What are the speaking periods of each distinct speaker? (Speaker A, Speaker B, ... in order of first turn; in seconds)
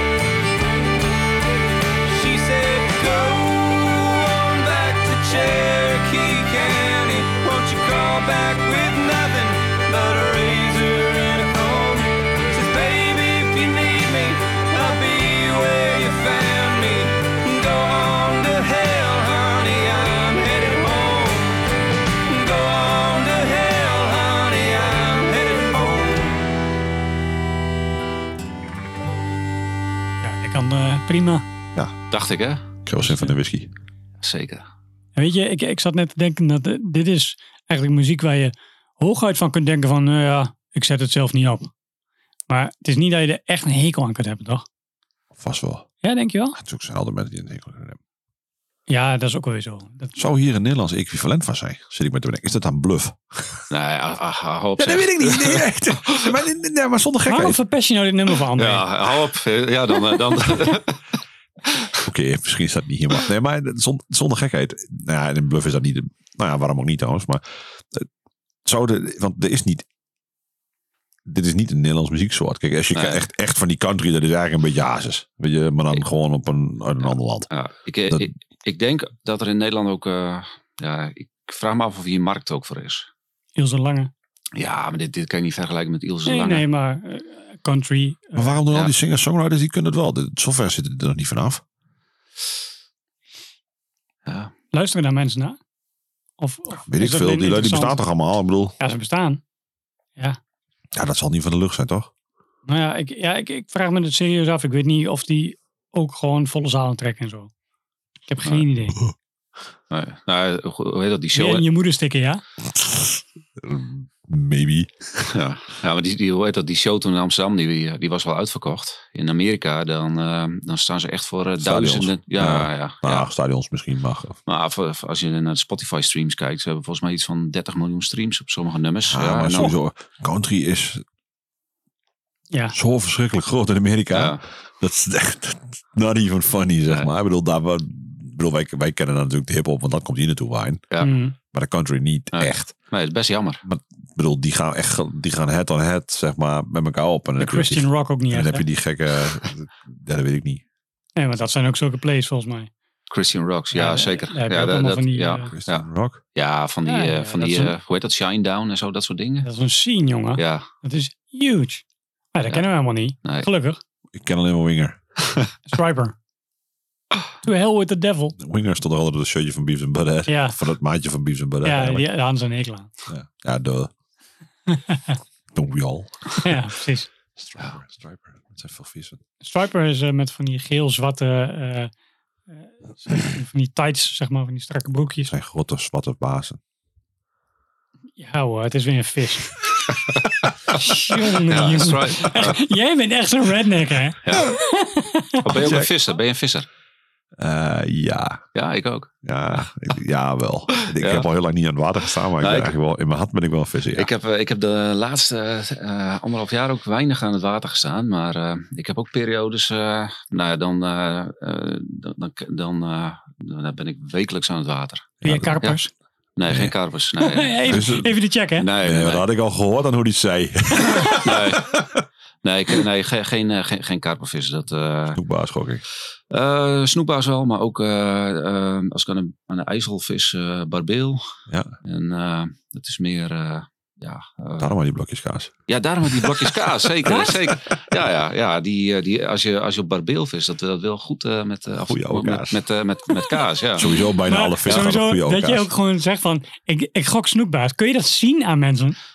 Speaker A: 2.0-21.6, 22.3-26.4
Speaker B: 30.2-31.4, 35.2-41.7, 42.5-44.6, 46.0-46.6, 48.9-50.2, 57.3-58.9, 83.6-84.1, 86.3-88.6, 94.7-95.6, 96.4-98.0, 98.8-99.4, 102.7-107.5, 108.3-109.0, 111.3-112.4, 141.0-141.3, 147.4-148.7, 151.2-152.7, 153.7-155.5, 156.9-157.7, 159.4-163.8, 165.7-166.2, 167.4-168.4, 170.3-170.6, 171.6-172.9, 174.7-175.2, 176.4-177.1, 179.4-181.9, 182.6-185.3, 188.2-189.6, 190.7-195.4, 215.2-215.9, 217.2-218.7, 237.1-237.3, 244.3-249.0
Speaker C: 32.1-32.6, 34.2-34.6, 53.7-56.1, 58.6-61.0, 73.0-73.2, 77.0-83.1, 84.6-86.7, 94.3-94.5, 109.9-111.7, 115.3-123.3, 124.5-129.7, 134.1-134.4, 142.3-143.6, 153.1-159.5, 160.4-160.7, 191.5-192.6, 194.2-194.5, 195.4-196.7, 198.6-199.1, 201.0-201.3, 202.4-202.7, 203.9-215.8, 216.4-217.9, 218.6-219.2, 221.2-221.8, 222.4-225.2, 226.3-231.3, 231.8-234.7, 235.7-243.9
Speaker D: 32.9-33.7, 45.4-45.9, 46.5-48.0, 50.2-53.6, 54.8-57.6, 62.0-68.1, 68.7-69.8, 71.3-77.5, 88.3-91.6, 96.8-98.8, 101.0-102.1, 112.8-115.3, 121.6-124.4, 129.1-131.0, 132.7-140.8, 141.5-142.7, 143.6-150.6, 155.5-156.2, 164.1-165.0, 168.4-172.1, 173.1-173.9, 175.5-176.5, 177.4-179.2, 185.3-186.6, 195.5-195.9, 197.4-198.4, 199.2-204.1, 215.2-215.6, 216.5-216.7, 217.7-218.1, 218.8-221.9, 225.1-225.8, 234.6-235.5, 236.2-236.5, 241.9-242.6, 243.8-245.7